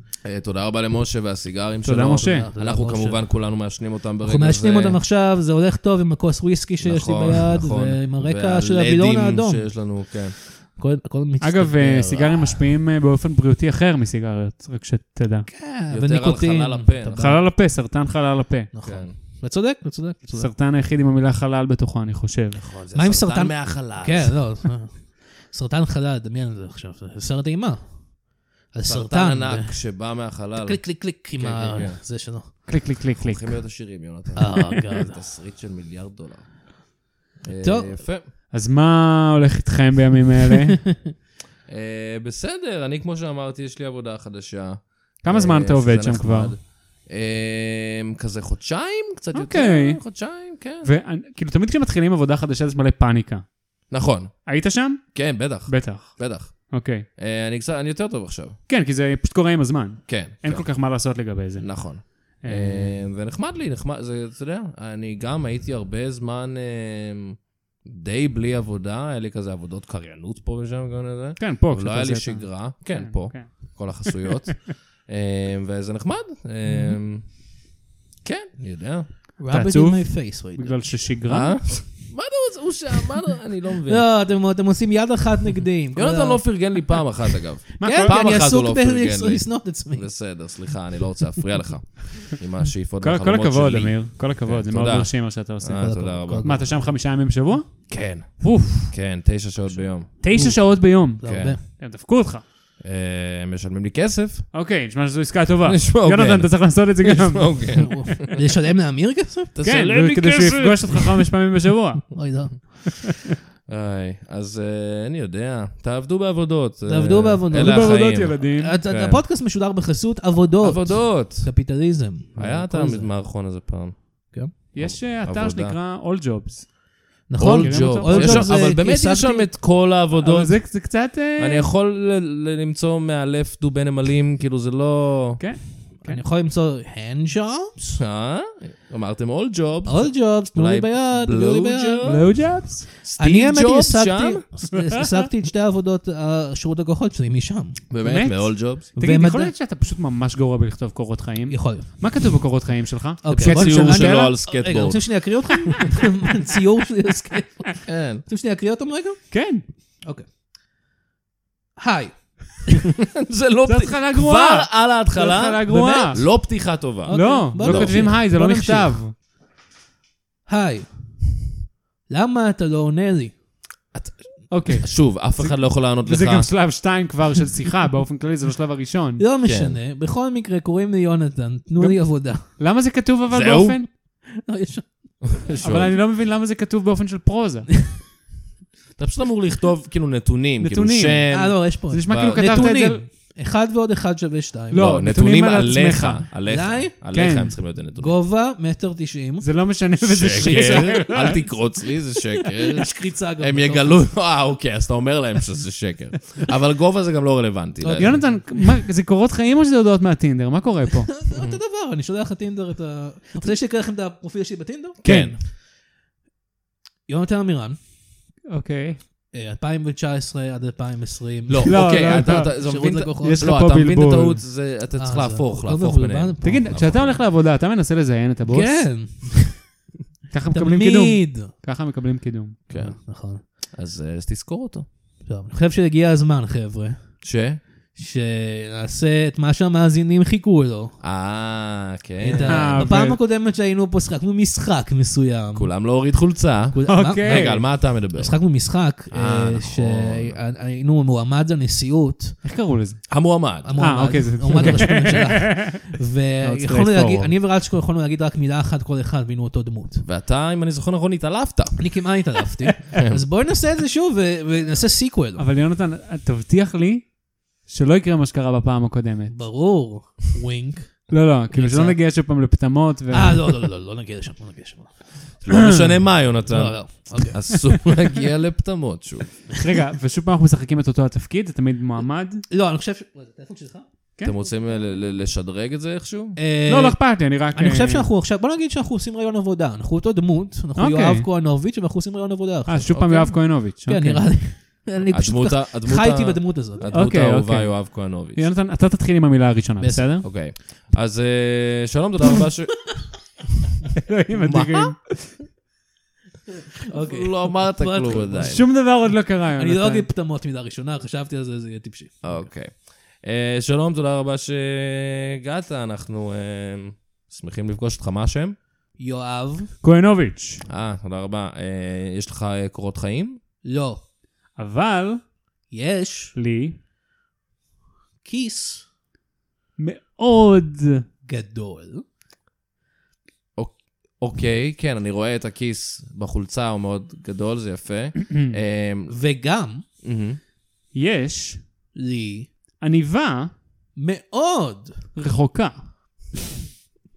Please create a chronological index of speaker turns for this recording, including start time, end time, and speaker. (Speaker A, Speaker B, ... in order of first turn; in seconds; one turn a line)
Speaker A: 0.2-5.0
Speaker B: 1.8-2.5
Speaker C: 2.1-3.6
Speaker C: 4.2-12.7
Speaker A: 6.8-10.4
Speaker B: 11.4-15.5
Speaker C: 15.5-17.5
Speaker A: 15.9-17.3
Speaker B: 17.2-18.7
Speaker C: 18.7-20.5
Speaker A: 18.8-19.1
Speaker B: 20.3-22.6
Speaker A: 22.6-24.5
Speaker C: 22.9-32.5
Speaker A: 28.8-32.0
Speaker B: 32.7-33.6
Speaker A: 33.2-36.6
Speaker C: 34.4-35.1
Speaker A: 37.4-38.3
Speaker C: 37.6-38.1
Speaker B: 38.5-40.8
Speaker A: 41.7-50.9
Speaker B: 45.2-46.5
Speaker B: 49.3-50.3
Speaker B: 50.8-53.6
Speaker A: 53.9-58.6
Speaker B: 54.5-57.0
Speaker B: 58.7-62.9
Speaker A: 60.1-77.4
Speaker B: 71.4-74.4
Speaker C: 76.6-77.0
Speaker A: 78.2-79.1
Speaker C: 79.4-81.1
Speaker B: 79.5-81.6
Speaker A: 81.3-84.0
Speaker C: 83.8-87.1
Speaker A: 85.9-96.6
Speaker B: 87.8-88.2
Speaker C: 87.8-90.8
Speaker B: 93.0-98.9
Speaker C: 95.7-96.9
Speaker A: 97.9-100.6
Speaker C: 99.7-101.6
Speaker B: 100.2-102.4
Speaker A: 101.2-101.6
Speaker A: 102.8-104.5
Speaker B: 104.5-107.9
Speaker A: 105.7-108.3
Speaker C: 107.7-109.5
Speaker A: 109.5-111.2
Speaker B: 109.6-112.8
Speaker C: 112.1-113.0
Speaker A: 113.7-119.2
Speaker C: 116.8-123.2
Speaker B: 117.5-118.8
Speaker A: 120.6-121.5
Speaker A: 122.3-125.8
Speaker B: 124.7-126.7
Speaker C: 127.3-129.5
Speaker A: 127.4-130.7
Speaker B: 127.5-128.5
Speaker B: 130.2-131.7
Speaker A: 131.3-135.4
Speaker B: 135.4-136.2
Speaker C: 136.0-138.0
Speaker A: 138.0-142.5
Speaker C: 139.8-142.2
Speaker B: 142.0-142.8
Speaker A: 143.0-144.5
Speaker C: 143.2-147.8
Speaker B: 144.9-145.2
Speaker A: 147.9-148.9
Speaker B: 148.0-154.4
Speaker C: 148.9-149.5
Speaker C: 151.5-151.9
Speaker C: 153.2-160.2
Speaker A: 153.3-155.3
Speaker A: 157.8-158.2
Speaker B: 159.3-159.6
Speaker C: 161.8-162.8
Speaker A: 163.0-168.2
Speaker B: 163.7-166.3
Speaker C: 165.8-166.5
Speaker C: 167.0-169.0
Speaker B: 167.1-169.1
Speaker C: 170.5-171.2
Speaker C: 172.1-173.4
Speaker A: 173.9-176.5
Speaker B: 174.5-179.2
Speaker C: 179.2-182.5
Speaker A: 179.4-179.8
Speaker B: 181.8-183.9
Speaker A: 183.3-183.8
Speaker C: 184.3-185.3
Speaker A: 185.2-186.0
Speaker B: 185.6-187.8
Speaker A: 188.9-192.8
Speaker B: 190.6-193.0
Speaker C: 191.3-194.9
Speaker B: 194.7-196.3
Speaker A: 194.7-198.1
Speaker C: 196.5-197.3
Speaker B: 197.1-197.6
Speaker C: 197.9-199.7
Speaker B: 199.4-201.4
Speaker A: 200.0-208.2
Speaker C: 200.2-201.5
Speaker C: 202.4-204.1
Speaker C: 207.8-208.7
Speaker B: 207.9-211.1
Speaker C: 211.2-215.0
Speaker A: 211.3-211.6
Speaker A: 215.0-215.4
Speaker B: 215.0-215.4
Speaker C: 217.1-217.8
Speaker B: 218.5-219.0
Speaker C: 219.3-223.4
Speaker A: 221.5-227.2
Speaker B: 221.7-224.4
Speaker C: 225.0-226.8
Speaker B: 226.4-228.9
Speaker C: 228.5-229.6
Speaker B: 230.3-232.9
Speaker C: 230.5-231.5
Speaker A: 232.7-233.0
Speaker C: 232.7-233.4
Speaker A: 233.7-234.8
Speaker C: 235.2-237.1
Speaker A: 237.2-237.6
Speaker C: 237.9-241.0
Speaker A: 241.0-242.8
Speaker C: 242.2-245.8
Speaker B: 242.4-243.2
Speaker A: 245.5-248.4
Speaker C: 246.7-252.4
Speaker B: 246.9-247.6
Speaker A: 249.1-250.4
Speaker B: 252.4-253.2
Speaker A: 253.1-253.7
Speaker C: 253.6-260.0
Speaker B: 253.8-255.9
Speaker B: 256.4-257.3
Speaker A: 260.0-261.9
Speaker C: 261.8-265.4
Speaker B: 265.4-269.4
Speaker C: 269.3-272.0
Speaker B: 271.1-273.6
Speaker C: 273.1-275.3
Speaker A: 275.4-279.4
Speaker B: 275.5-275.9
Speaker C: 276.5-277.6
Speaker B: 279.6-282.4
Speaker C: 282.5-283.9
Speaker A: 284.2-286.4
Speaker C: 286.4-292.9
Speaker B: 286.7-288.1
Speaker B: 290.8-291.3
Speaker B: 292.7-294.3
Speaker A: 292.9-293.4
Speaker C: 293.8-296.9
Speaker A: 295.1-298.5
Speaker B: 296.9-300.2
Speaker C: 299.8-300.1
Speaker A: 300.2-302.9
Speaker B: 304.0-305.4
Speaker A: 304.3-304.9
Speaker C: 306.9-312.4
Speaker A: 306.9-308.6
Speaker B: 308.4-310.1
Speaker A: 312.2-318.6
Speaker C: 319.0-319.7
Speaker B: 319.8-320.6
Speaker A: 320.6-323.4
Speaker C: 323.6-324.0
Speaker B: 324.6-325.2
Speaker C: 325.7-326.4
Speaker B: 326.3-326.8
Speaker C: 328.2-328.8
Speaker B: 329.8-331.0
Speaker C: 331.2-332.0
Speaker A: 333.6-339.1
Speaker B: 338.2-338.5
Speaker C: 339.1-339.8
Speaker A: 340.0-340.4
Speaker B: 340.9-341.6
Speaker C: 341.9-342.5
Speaker B: 342.8-343.5
Speaker C: 343.9-345.1
Speaker B: 345.1-345.9